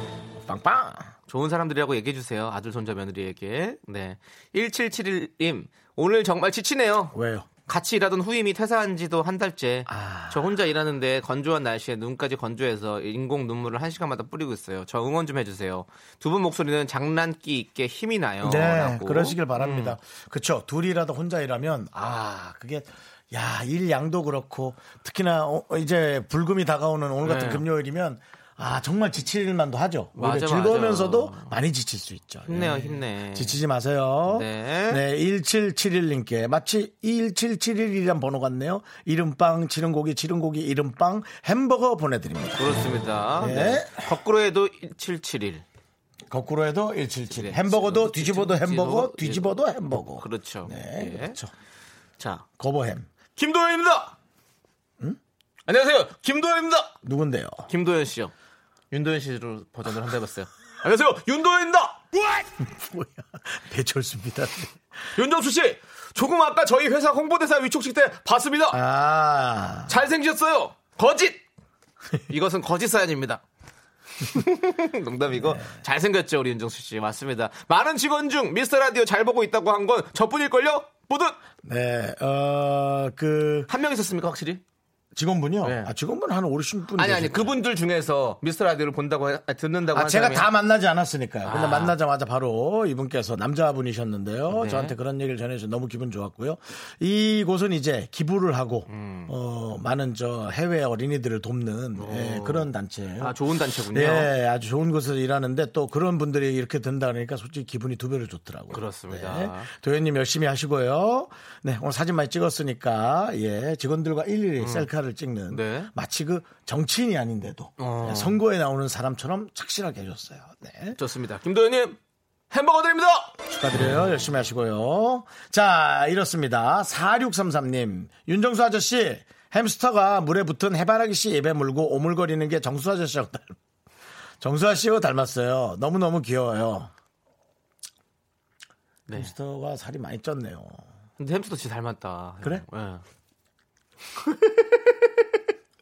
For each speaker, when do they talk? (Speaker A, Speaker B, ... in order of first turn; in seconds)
Speaker A: 0.4-1.1, 7.1-7.5, 9.9-10.5, 18.4-42.8, 43.4-44.1, 46.3-51.5, 52.6-53.1, 57.0-57.6, 62.6-64.8, 68.7-69.9, 75.4-75.6, 81.6-83.7, 85.1-87.6, 89.9-103.4, 103.9-121.0, 123.5-133.5, 134.4-136.9, 139.1-140.8
Speaker B: 1.3-19.9, 27.2-27.6, 30.1-31.5, 32.5-33.6, 34.3-35.0, 42.6-45.6, 47.3-49.5, 50.1-51.4, 52.2-52.4, 53.4-54.1, 55.7-56.9, 57.7-58.3, 58.9-62.0, 65.2-68.8, 69.9-71.4, 72.3-73.4, 74.2-81.4, 83.7-84.6, 85.6-85.9, 87.0-90.5, 91.4-92.0, 94.5-95.0, 98.9-99.3, 101.9-104.3, 108.7-109.7, 114.6-114.9, 115.5-115.9, 117.8-118.4, 121.0-122.0, 122.5-123.3, 139.1-139.3, 141.2-143.0, 144.2-145.2